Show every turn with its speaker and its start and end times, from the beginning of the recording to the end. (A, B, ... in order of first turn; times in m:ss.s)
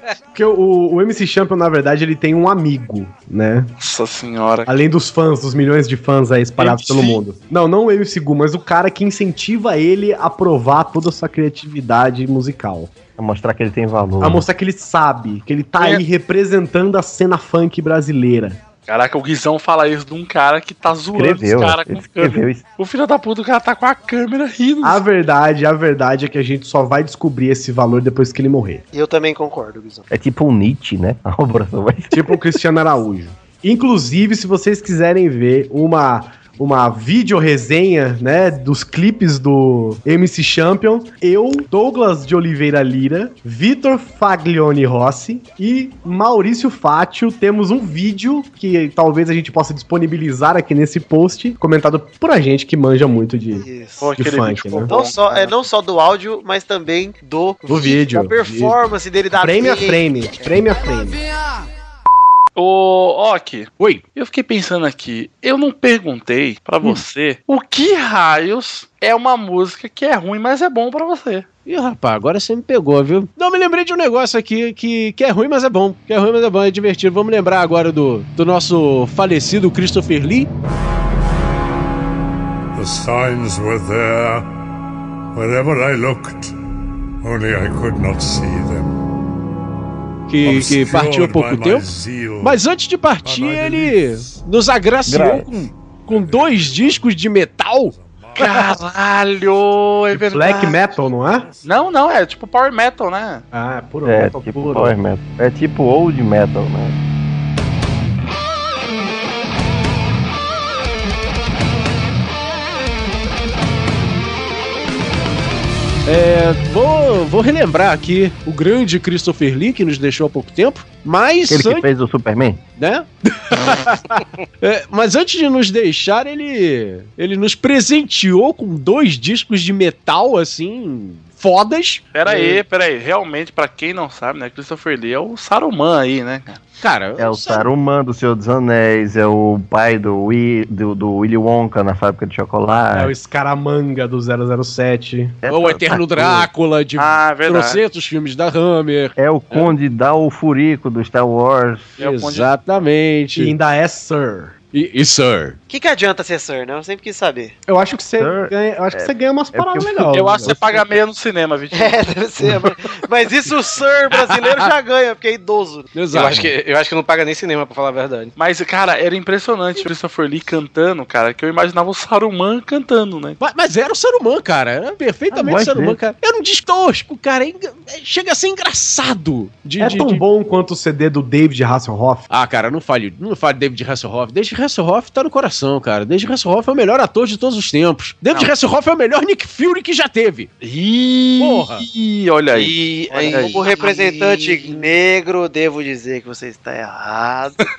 0:00.3-0:03.7 A
0:03.8-0:04.7 B
0:04.6-0:12.9 A
0:06.6-0:07.2 B
0:13.2-0:14.4 C
0:14.2-0:18.6 A
0:18.9-0:25.0 B
0:21.1-0:22.6 C
0:24.8-0:28.8 A
0:28.9-0:30.0 D
0:30.1-0:32.4 C
0:32.1-0:53.6 A
0:53.5-0:54.1 D
0:54.0-0:55.6 B
0:54.2-0:54.9 A
0:54.9-1:00.1 D
0:57.6-0:58.8 A
0:59.3-1:01.2 A
1:02.6-1:11.4 B
1:11.6-1:20.5 E
1:22.7-1:24.5 F
1:25.3-1:26.6 F
1:27.2-1:29.0 F
1:30.3-1:31.9 E
1:30.4-1:32.6 F
1:32.4-1:38.6 E
1:33.2-1:34.3 F
1:35.0-1:35.6 C
1:36.1-1:37.0 F
1:38.0-1:38.4 F
1:38.4-1:40.8 B
1:40.1-1:41.5 A
1:41.6-1:43.4 B
1:43.5-1:44.9 A
1:44.0-1:47.0 C
1:56.0-2:01.9 E
2:01.5-2:02.6 C
2:02.8-2:12.6 E
2:12.1-2:16.6 B
2:16.8-2:17.6 E
2:17.2-2:23.1 C
2:22.9-2:25.4 A
2:25.4-2:26.5 C
2:25.5-2:29.7 E
2:27.0-2:27.8 B
2:29.2-2:32.0 C
2:32.0-2:32.5 B
2:32.0-2:33.5 E
2:33.3-2:34.6 A
2:34.7-2:35.6 E
2:35.7-2:37.6 D
2:37.7-2:40.6 A
2:38.2-2:40.8 C
2:40.1-2:42.0 B
2:41.7-2:45.9 D
2:44.1-2:44.7 E
2:45.9-2:46.5 E
2:46.1-2:48.3 G
2:48.4-2:53.4 B
2:53.4-3:00.2 E
2:55.3-2:56.0 C
2:59.8-3:02.3 A
3:02.3-3:10.5 E
3:10.6-3:13.6 B
3:11.4-3:11.8 E
3:12.5-3:14.6 G
3:13.1-3:17.6 D